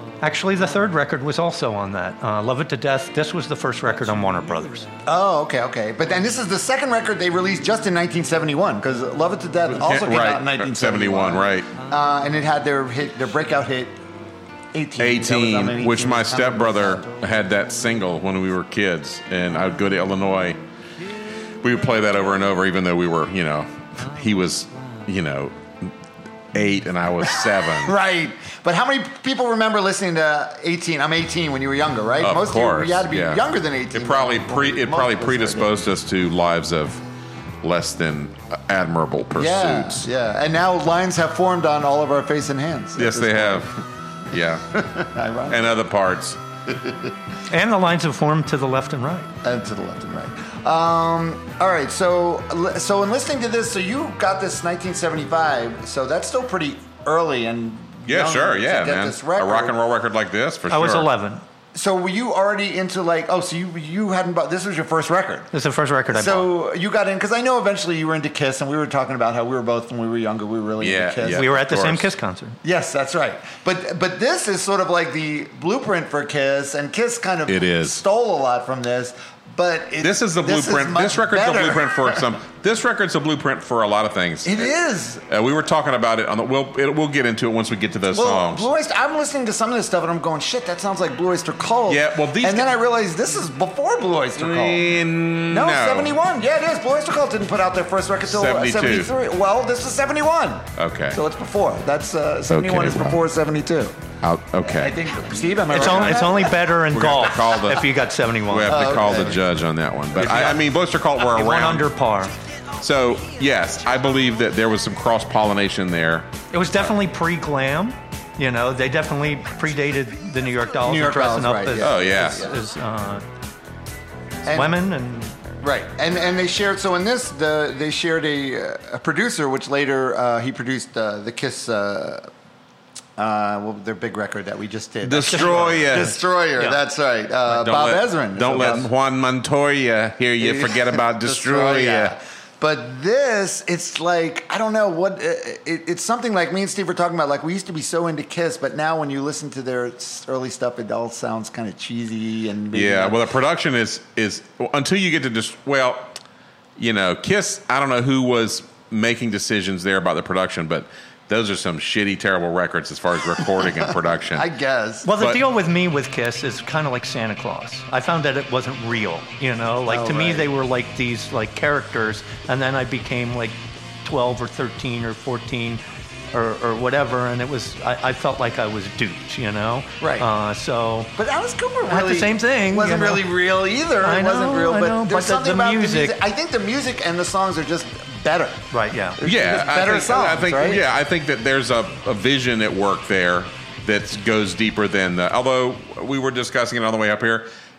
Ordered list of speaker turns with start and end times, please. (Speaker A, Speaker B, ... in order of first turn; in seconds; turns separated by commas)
Speaker A: 0.2-4.9, Speaker B: 5.0-14.0, Speaker C: 9.8-11.7, Speaker B: 14.7-17.1, Speaker C: 15.0-20.6, Speaker C: 21.6-25.9, Speaker C: 26.5-28.0, Speaker B: 27.5-35.8, Speaker C: 32.2-33.4, Speaker C: 33.9-37.0, Speaker C: 37.6-40.0, Speaker B: 39.4-43.7, Speaker C: 43.0-44.6, Speaker B: 44.7-45.8, Speaker C: 45.5-46.4, Speaker B: 46.7-47.1, Speaker A: 47.5-49.3, Speaker B: 49.4-59.8, Speaker C: 58.1-61.1, Speaker A: 60.7-61.4, Speaker B: 61.7-65.5, Speaker A: 65.5-66.5, Speaker B: 66.1-71.7, Speaker C: 70.8-72.1, Speaker A: 71.3-72.6, Speaker B: 72.6-82.3, Speaker C: 77.5-78.0, Speaker C: 80.0-84.7, Speaker B: 84.4-85.2, Speaker C: 85.3-88.7, Speaker B: 88.1-94.9, Speaker C: 91.9-92.7, Speaker C: 94.4-96.2, Speaker B: 95.4-104.0, Speaker C: 98.3-99.1, Speaker C: 100.8-101.2, Speaker C: 102.5-103.2, Speaker C: 104.2-105.0, Speaker B: 104.6-106.7, Speaker A: 105.7-109.1, Speaker C: 105.8-111.9, Speaker B: 108.7-109.4, Speaker A: 110.2-110.6, Speaker A: 111.2-112.3, Speaker C: 112.8-116.3, Speaker A: 116.5-123.2, Speaker B: 120.8-122.5, Speaker C: 121.8-122.5, Speaker B: 124.4-124.8, Speaker A: 124.5-125.3, Speaker B: 125.6-132.3, Speaker B: 133.2-138.9, Speaker C: 135.0-136.2, Speaker A: 135.2-136.8, Speaker C: 137.5-142.2, Speaker B: 140.4-153.3, Speaker C: 152.7-156.2, Speaker C: 156.8-164.4, Speaker B: 163.5-165.1, Speaker A: 165.0-181.1, Speaker B: 169.9-170.5, Speaker B: 180.0-180.3, Speaker B: 181.2-188.7, Speaker A: 181.9-183.4, Speaker A: 184.0-186.2, Speaker A: 188.7-189.2, Speaker B: 189.2-190.8, Speaker C: 189.2-197.5